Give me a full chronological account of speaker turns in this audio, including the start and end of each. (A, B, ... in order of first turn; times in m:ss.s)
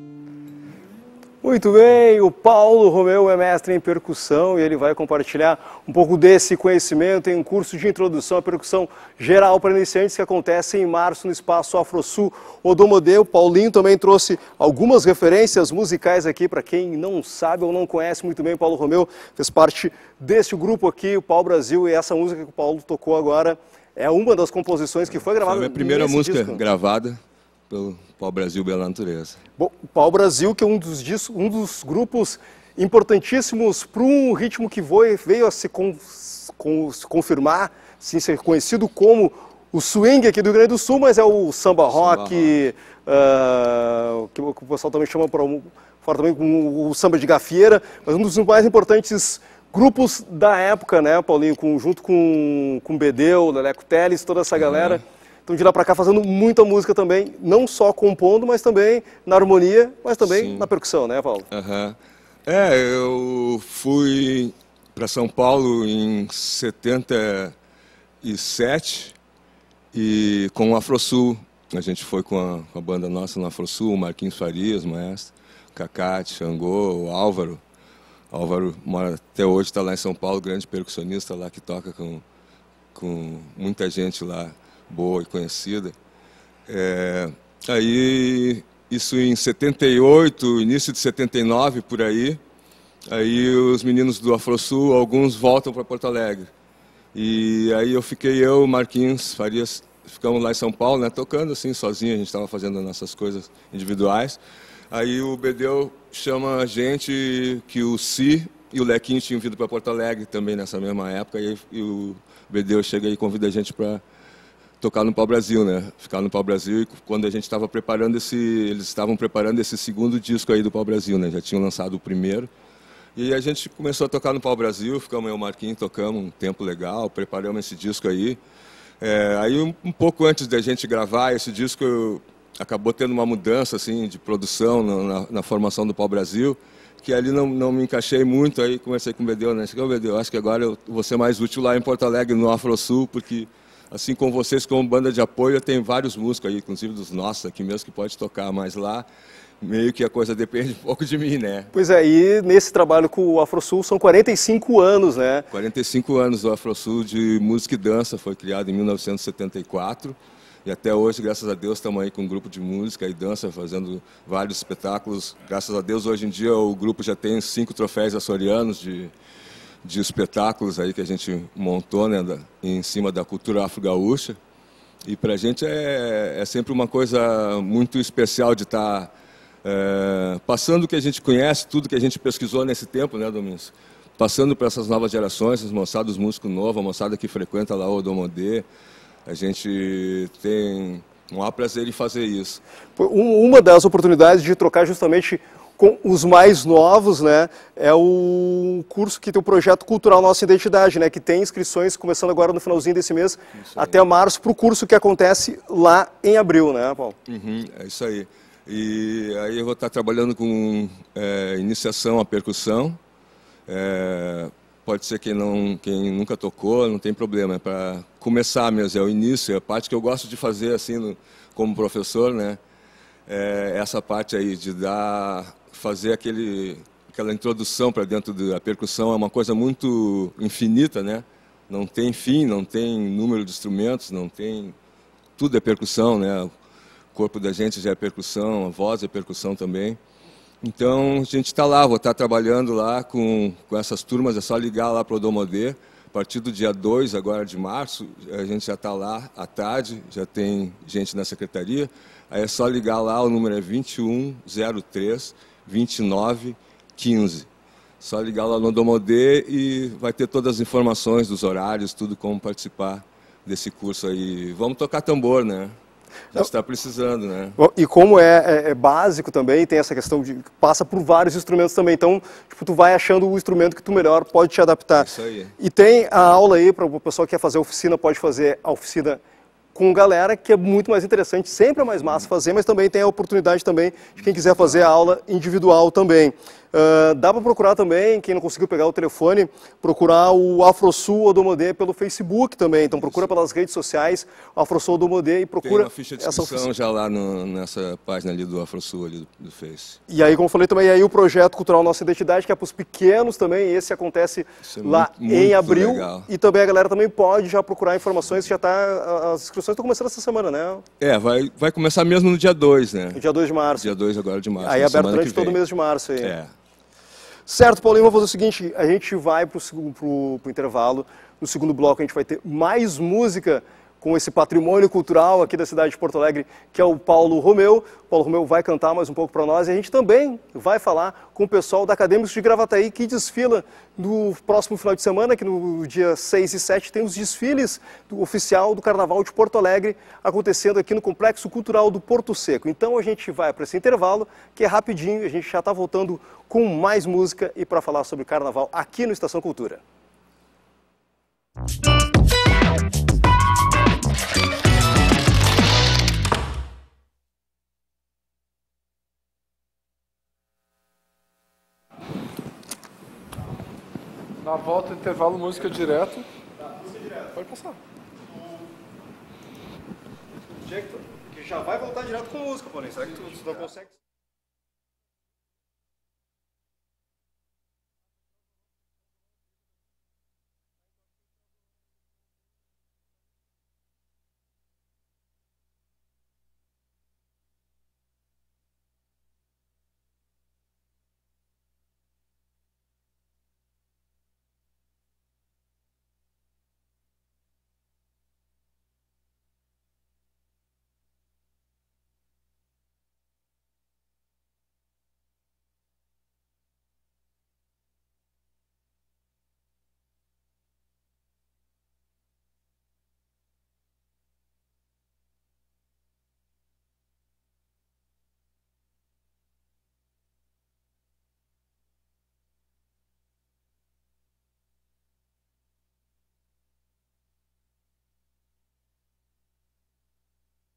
0:01.4-0:26.6 A
0:25.4-0:29.4 B
0:29.6-1:01.5 A
0:41.9-0:42.6 B
0:54.6-0:55.0 B
1:00.2-1:00.7 B
1:01.5-1:07.5 B
1:08.2-1:09.2 B
1:09.9-1:17.6 B
1:18.3-1:22.2 B
1:22.9-1:25.9 B
1:26.7-1:32.4 B
1:33.1-1:36.5 B
1:37.1-1:44.4 B
1:44.9-1:54.0 B
1:54.8-2:02.5 B
2:03.2-2:08.4 B
2:09.0-2:29.0 B
2:29.6-2:31.7 B
2:31.7-2:35.5 A
2:35.5-2:49.1 B
2:49.8-2:54.4 B
2:55.0-2:59.1 B
2:59.6-3:08.6 B
3:09.2-3:12.6 B
3:13.0-3:27.2 A
3:23.6-3:24.0 B
3:27.3-3:33.0 B
3:33.7-3:42.6 B
3:43.3-3:54.8 B
3:55.4-3:56.5 B
3:57.1-4:00.0 B
4:00.6-4:17.5 B
4:18.0-4:25.8 B
4:26.3-4:27.6 B
4:27.6-4:39.2 A
4:35.0-4:35.5 B
4:39.7-4:56.7 A
4:55.6-5:00.0 B
5:00.1-5:10.8 A
5:04.6-5:06.3 B
5:11.0-5:13.2 B
5:13.1-5:13.9 A
5:13.7-5:15.6 B
5:14.6-5:16.3 A
5:16.2-5:16.5 B
5:17.5-5:49.8 A
6:04.4-6:06.3 C
6:06.7-6:07.4 A
6:07.4-6:07.8 C
6:10.6-6:13.9 A